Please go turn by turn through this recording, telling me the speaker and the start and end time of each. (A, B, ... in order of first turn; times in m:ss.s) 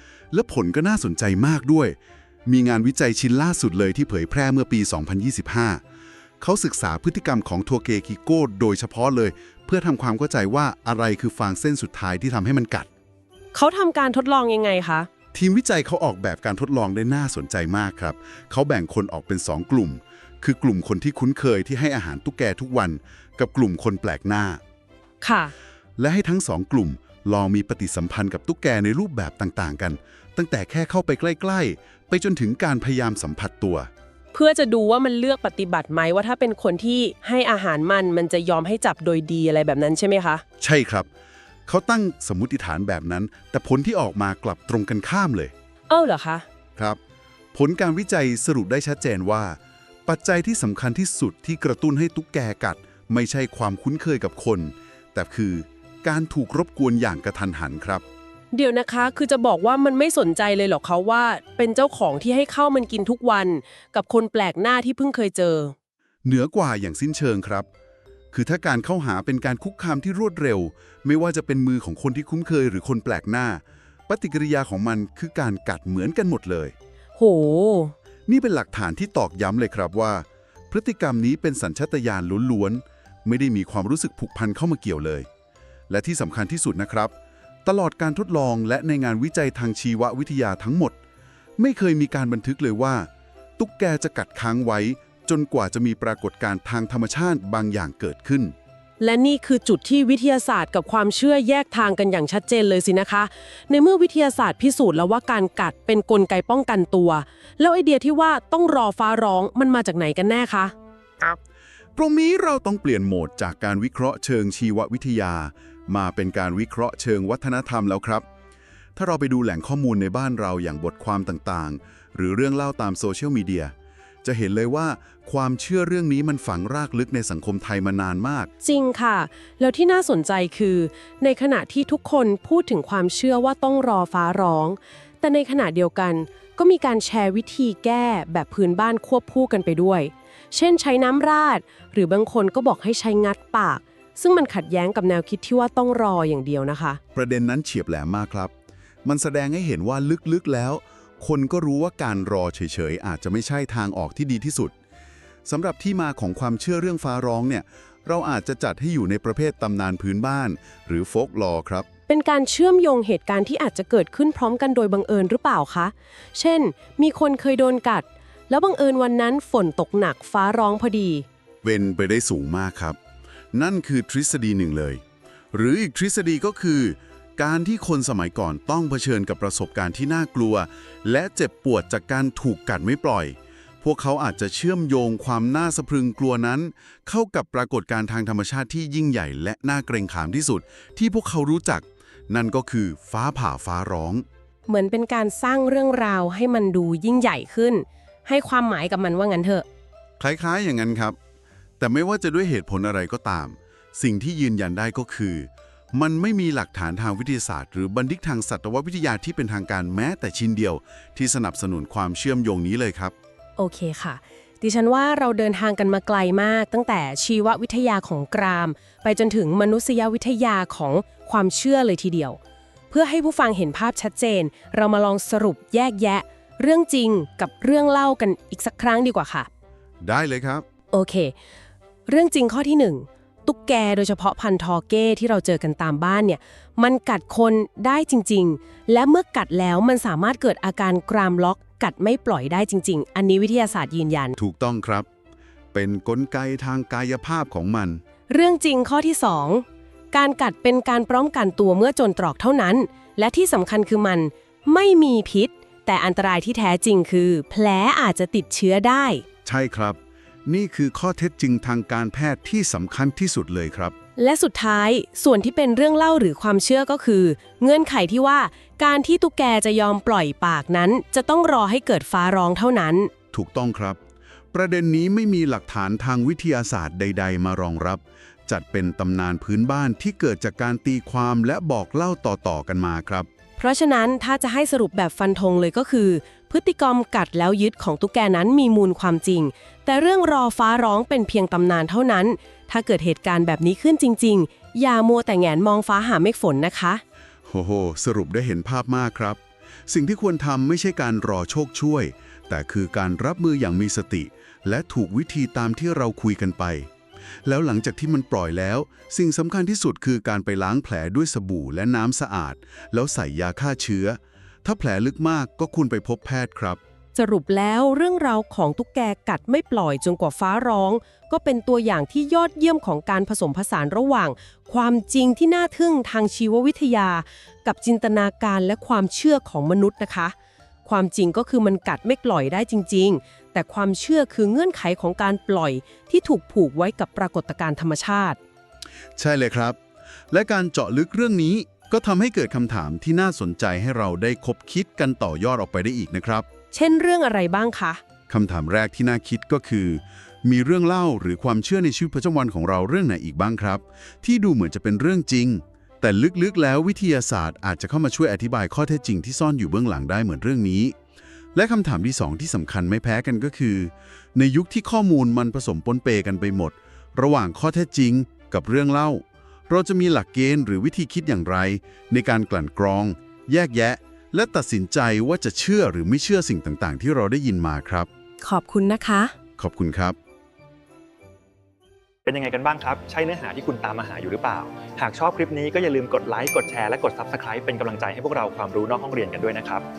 0:00.3-0:05.8 A
0:06.4-0:12.9 A
0:13.5-0:15.1 B
0:15.3-0:24.6 A
0:25.2-0:25.5 B
0:26.0-0:33.9 A
0:34.3-0:40.4 B
0:40.6-0:41.1 A
0:41.7-0:45.5 A
0:45.9-0:46.4 B
0:47.5-0:58.0 A
0:58.5-1:05.7 B
1:06.2-1:07.7 A
1:08.3-1:16.7 A
1:17.2-1:17.9 B
1:18.3-1:25.3 A
1:25.9-1:27.1 A
1:27.6-1:30.9 A
1:31.6-1:38.5 A
1:39.0-1:50.7 B
1:52.0-1:58.2 A
1:59.0-2:03.7 A
2:04.2-2:08.5 A
2:08.6-2:27.0 B
2:27.1-2:28.5 A
2:29.0-2:34.7 A
2:35.4-2:41.8 A
2:42.1-2:51.2 B
2:51.6-2:53.0 A
2:53.5-2:55.0 A
2:55.5-3:14.2 A
3:14.7-3:19.6 B
3:20.2-3:21.2 A
3:21.8-3:33.1 A
3:33.6-3:42.4 B
3:42.9-3:49.5 B
3:50.0-3:50.6 A
3:50.9-3:51.3 B
3:52.1-4:04.4 B
4:04.4-4:05.1 A
4:05.7-4:08.0 A
4:08.3-4:19.2 B
4:19.4-4:23.9 A
4:24.2-4:33.1 B
4:33.3-4:34.0 A
4:34.5-4:43.3 A
4:43.6-4:57.0 B
4:57.5-5:06.9 A
5:07.4-5:16.8 A
5:17.1-5:38.4 B
5:39.2-5:39.8 A
5:40.3-5:46.4 A
5:46.7-5:48.0 B
5:48.3-6:01.0 A
6:01.5-6:18.1 A
6:18.4-6:19.3 B
6:19.6-6:20.2 A
6:22.2-6:29.8 C